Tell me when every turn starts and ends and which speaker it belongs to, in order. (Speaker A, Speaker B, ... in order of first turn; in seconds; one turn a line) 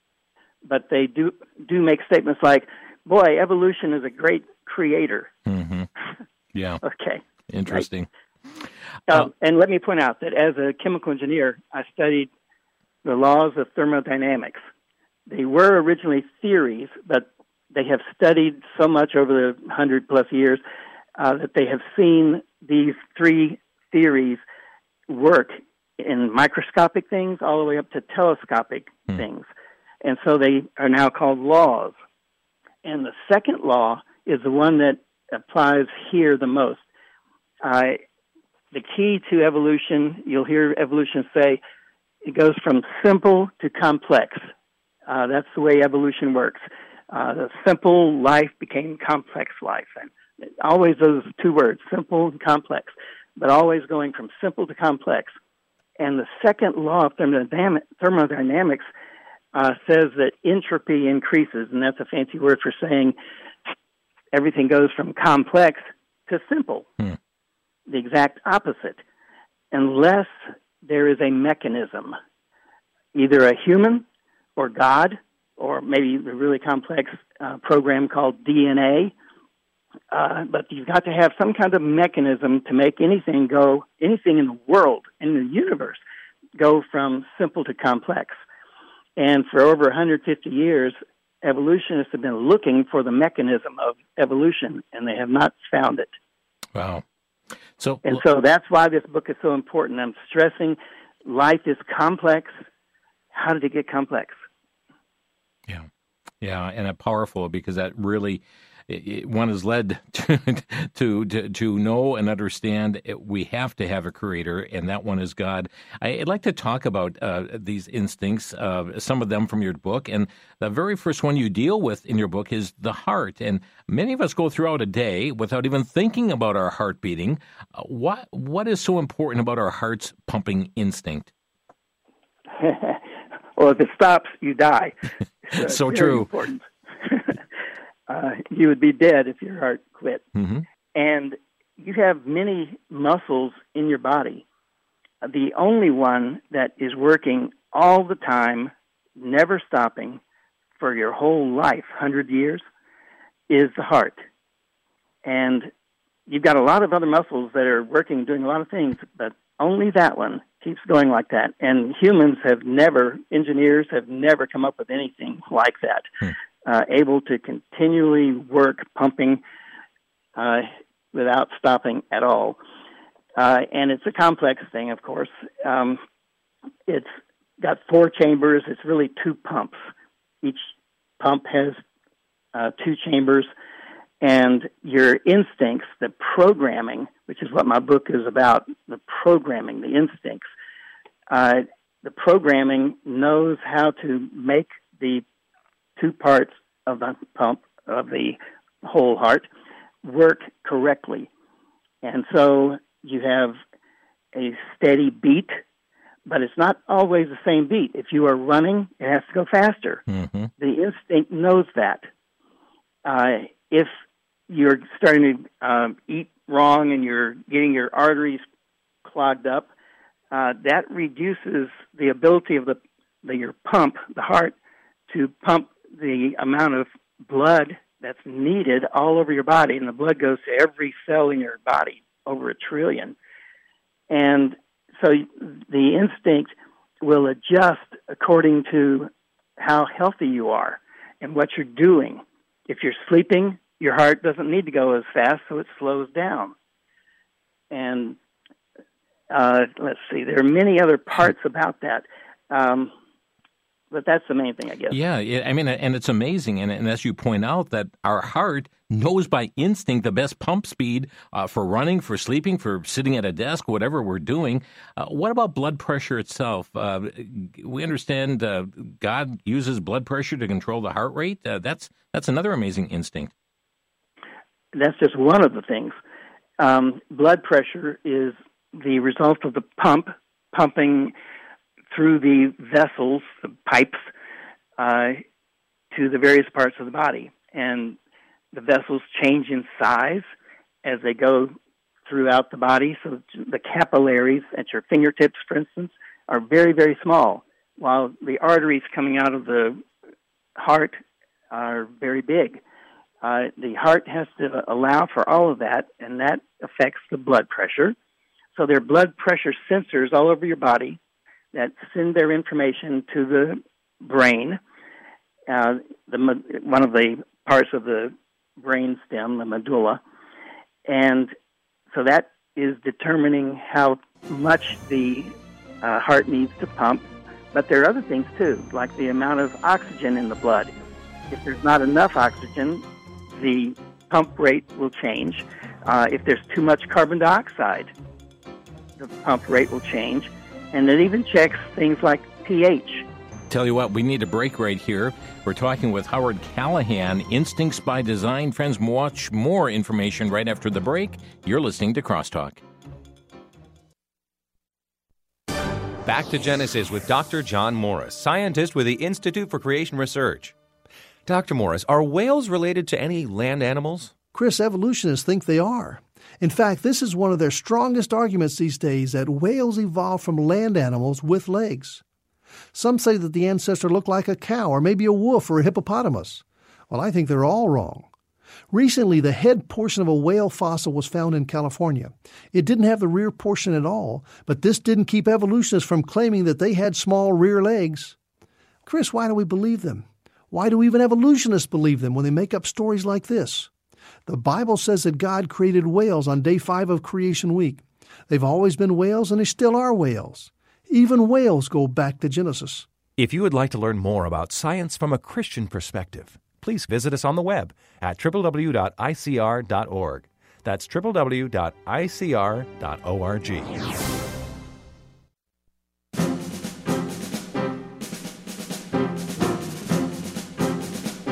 Speaker A: 0.7-5.3
Speaker B: 5.5-5.9
Speaker B: 6.5-6.8
Speaker A: 6.8-7.8
Speaker B: 7.5-8.1
Speaker A: 9.1-12.3
Speaker A: 13.0-14.6
Speaker A: 15.3-20.6
Speaker A: 21.2-24.4
Speaker A: 25.1-29.5
Speaker A: 30.0-31.9
Speaker A: 32.8-36.8
Speaker A: 37.6-38.0
Speaker A: 38.7-41.6
Speaker A: 42.2-44.5
Speaker A: 45.1-55.3
Speaker A: 56.0-58.9
Speaker A: 59.5-63.1
Speaker A: 64.3-66.9
Speaker A: 67.9-69.0
Speaker A: 69.7-72.2
Speaker A: 73.1-74.0
Speaker A: 74.6-79.1
Speaker A: 80.1-86.0
Speaker A: 86.6-88.4
Speaker A: 89.2-96.1
Speaker B: 96.7-97.0
Speaker B: 97.8-98.2
Speaker A: 98.0-102.6
Speaker A: 103.3-104.4
Speaker B: 106.4-131.3
Speaker A: 132.6-134.9
Speaker A: 135.5-137.3
Speaker B: 135.5-136.3
Speaker A: 138.1-140.2
Speaker B: 140.3-140.6
Speaker A: 140.9-144.4
Speaker A: 145.2-150.2
Speaker A: 150.8-152.6
Speaker A: 153.5-154.2
Speaker A: 155.2-155.7
Speaker A: 156.3-166.1
Speaker A: 166.6-169.4
Speaker A: 170.3-172.6
Speaker A: 173.3-176.0
Speaker A: 176.9-179.8
Speaker A: 180.4-180.7
Speaker A: 181.2-181.8
Speaker A: 182.5-183.5
Speaker A: 184.2-190.4
Speaker A: 191.3-195.2
Speaker A: 196.0-199.5
Speaker A: 200.0-201.3
Speaker A: 202.0-203.6
Speaker A: 204.3-205.6
Speaker A: 206.2-210.0
Speaker B: 210.1-210.5
Speaker A: 210.6-212.1
Speaker A: 213.0-213.9
Speaker A: 214.5-218.4
Speaker A: 219.0-219.7
Speaker A: 220.3-224.5
Speaker A: 225.1-233.1
Speaker A: 234.1-246.5
Speaker A: 247.7-248.2
Speaker A: 249.3-252.9
Speaker A: 253.9-255.0
Speaker B: 254.9-273.3
Speaker A: 274.7-275.9
Speaker A: 276.6-281.1
Speaker A: 281.9-284.1
Speaker A: 284.8-285.2
Speaker A: 285.9-288.0
Speaker A: 288.5-290.2
Speaker A: 290.8-291.5
Speaker A: 292.1-299.8
Speaker A: 300.6-301.0
Speaker A: 301.5-302.6
Speaker A: 303.2-307.9
Speaker A: 308.5-311.0
Speaker A: 311.5-314.6
Speaker A: 315.5-320.0
Speaker A: 320.9-321.3
Speaker A: 321.9-330.7
Speaker A: 331.3-337.9
Speaker A: 339.0-343.1
Speaker B: 343.5-352.6
Speaker C: 356.0-360.5
Speaker C: 361.2-364.1
Speaker D: 364.3-372.0
Speaker D: 372.7-378.1
Speaker D: 378.7-388.1
Speaker D: 388.9-393.7
Speaker D: 394.2-402.9
Speaker C: 403.2-413.8